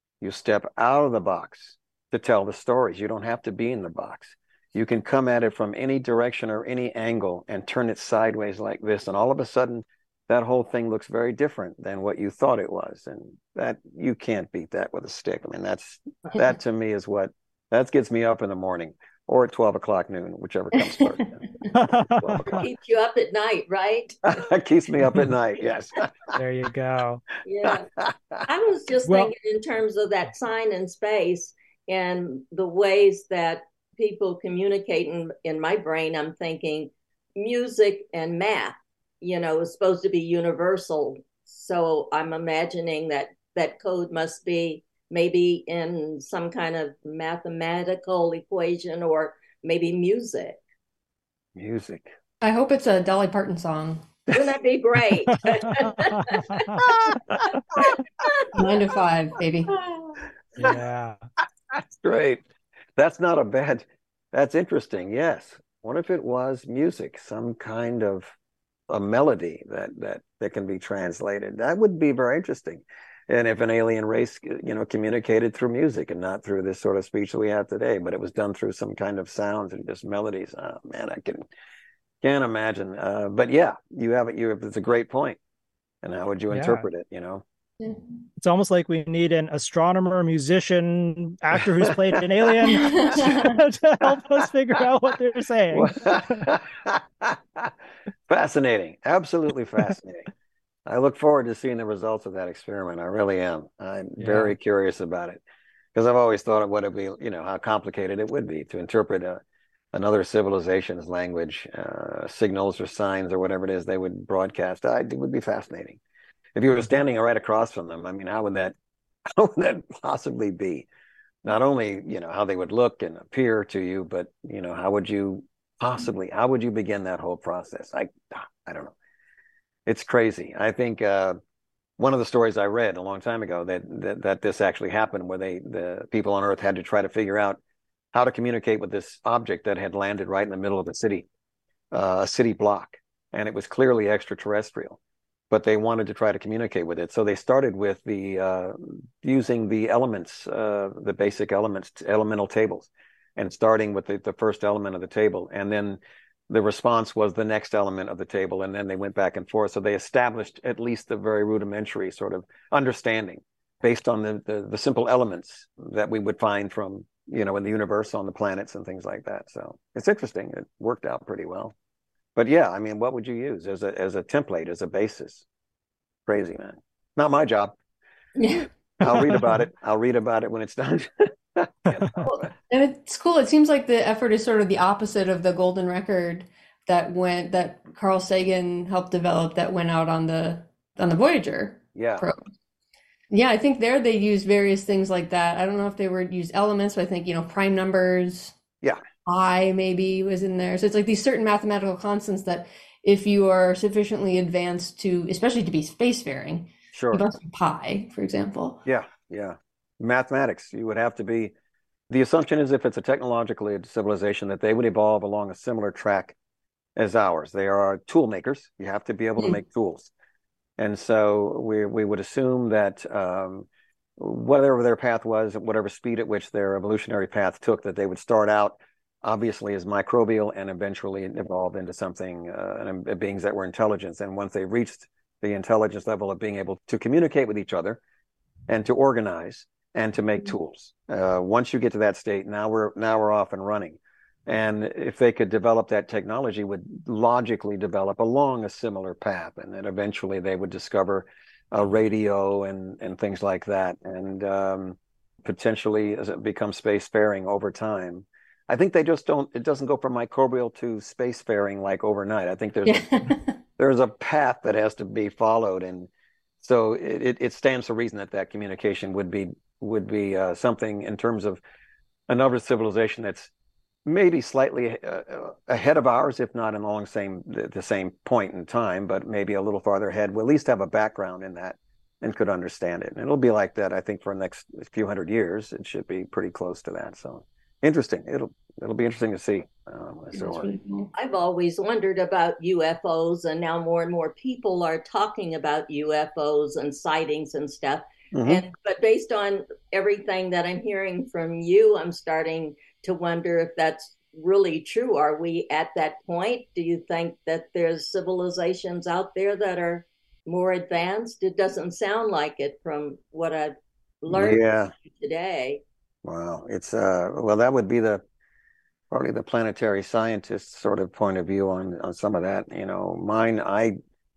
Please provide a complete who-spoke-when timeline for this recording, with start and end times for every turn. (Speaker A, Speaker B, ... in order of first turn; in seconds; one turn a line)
Speaker A: 0.2-22.6
Speaker B: 21.7-22.6
Speaker C: 22.5-24.2
Speaker A: 24.3-26.1
Speaker B: 26.3-27.2
Speaker C: 27.4-27.9
Speaker A: 27.6-28.4
Speaker C: 28.4-50.6
Speaker A: 51.5-52.1
Speaker D: 52.4-54.0
Speaker C: 54.3-56.6
Speaker B: 55.3-57.5
Speaker A: 56.8-57.8
Speaker C: 57.8-58.6
Speaker D: 58.5-59.7
Speaker C: 59.7-60.2
Speaker B: 60.6-61.2
Speaker A: 61.7-62.4
Speaker A: 63.0-68.3
Speaker A: 68.9-81.5
Speaker A: 82.2-85.4
Speaker A: 86.0-87.4
Speaker B: 86.5-86.9
Speaker B: 88.4-96.5
Speaker A: 91.9-92.2
Speaker D: 92.7-93.5
Speaker A: 95.7-97.7
Speaker A: 98.3-100.3
Speaker A: 100.8-105.4
Speaker B: 104.2-104.5
Speaker A: 105.9-109.4
Speaker A: 109.9-116.0
Speaker A: 116.5-118.8
Speaker A: 119.3-120.9
Speaker A: 121.4-128.9
Speaker A: 129.8-131.4
Speaker A: 132.0-137.6
Speaker A: 138.1-141.3
Speaker A: 141.9-145.0
Speaker A: 145.5-171.7
Speaker A: 172.3-175.4
Speaker A: 176.3-177.8
Speaker D: 178.4-178.7
Speaker A: 179.0-182.5
Speaker B: 179.1-179.3
Speaker D: 182.2-192.4
Speaker A: 191.9-192.3
Speaker D: 193.3-198.6
Speaker D: 199.2-208.8
Speaker A: 206.9-207.2
Speaker A: 208.8-211.5
Speaker A: 212.1-216.3
Speaker A: 216.9-220.1
Speaker A: 220.8-223.7
Speaker A: 224.2-238.0
Speaker A: 238.7-263.1
Speaker D: 262.9-263.6
Speaker A: 263.8-271.6
Speaker A: 272.3-273.5
Speaker A: 274.1-290.7
Speaker D: 290.3-291.1
Speaker C: 291.1-315.8
Speaker A: 298.3-298.6
Speaker A: 314.3-314.9
Speaker A: 316.2-318.2
Speaker A: 319.1-323.9